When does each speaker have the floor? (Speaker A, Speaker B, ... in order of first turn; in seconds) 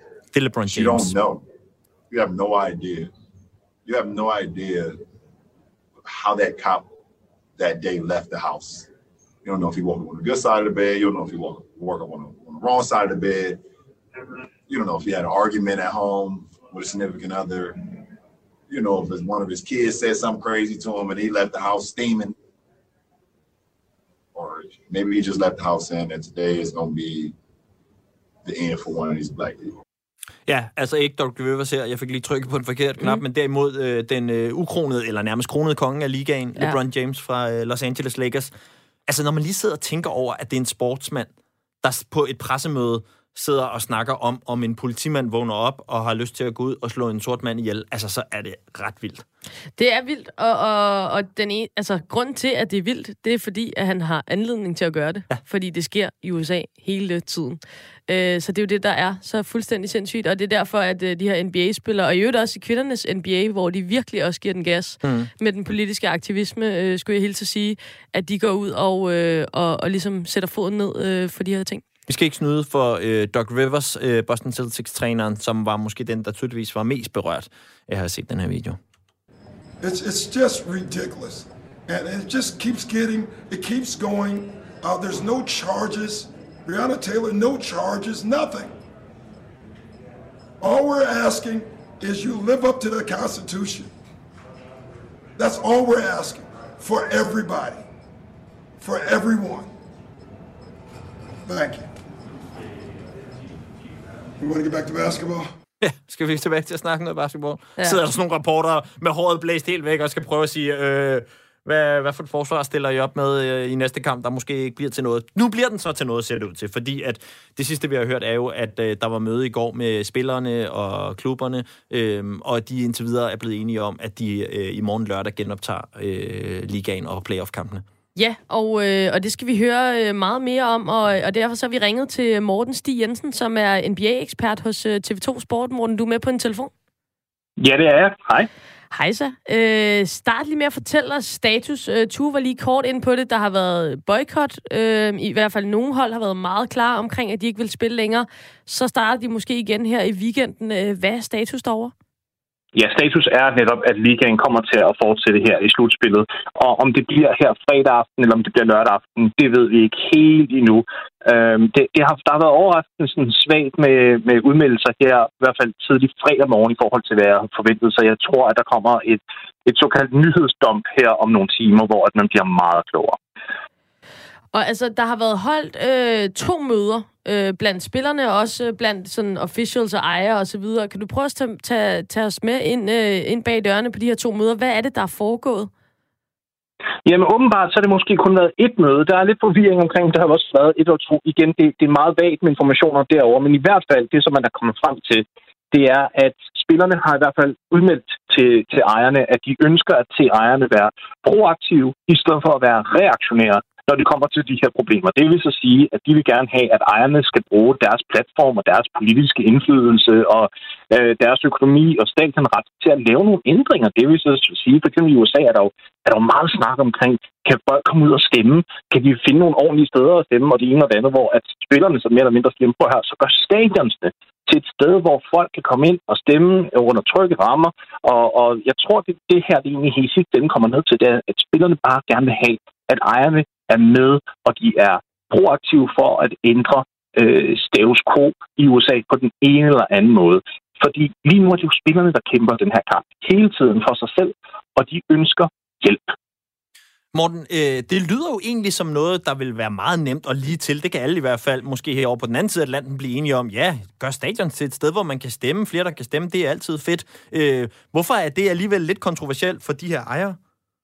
Speaker A: 0.3-1.1, 30.5-38.5, 39.1-41.3, 41.8-49.2, 65.0-65.3, 72.1-78.8, 105.8-127.8, 247.1-260.4
Speaker B: 0.7-1.4, 2.1-3.1, 3.9-5.0, 6.0-6.9, 7.6-8.9, 9.4-13.6, 14.7-17.8, 18.7-22.4, 24.4-27.3, 28.4-29.8
Speaker C: 49.8-71.8, 128.2-136.7, 138.9-151.9, 174.5-185.7
Speaker D: 79.8-88.7, 90.6-93.9, 95.4-97.8, 98.8-99.7, 101.5-101.9, 104.4-105.5
Speaker E: 137.6-138.5, 152.8-173.2, 187.1-246.1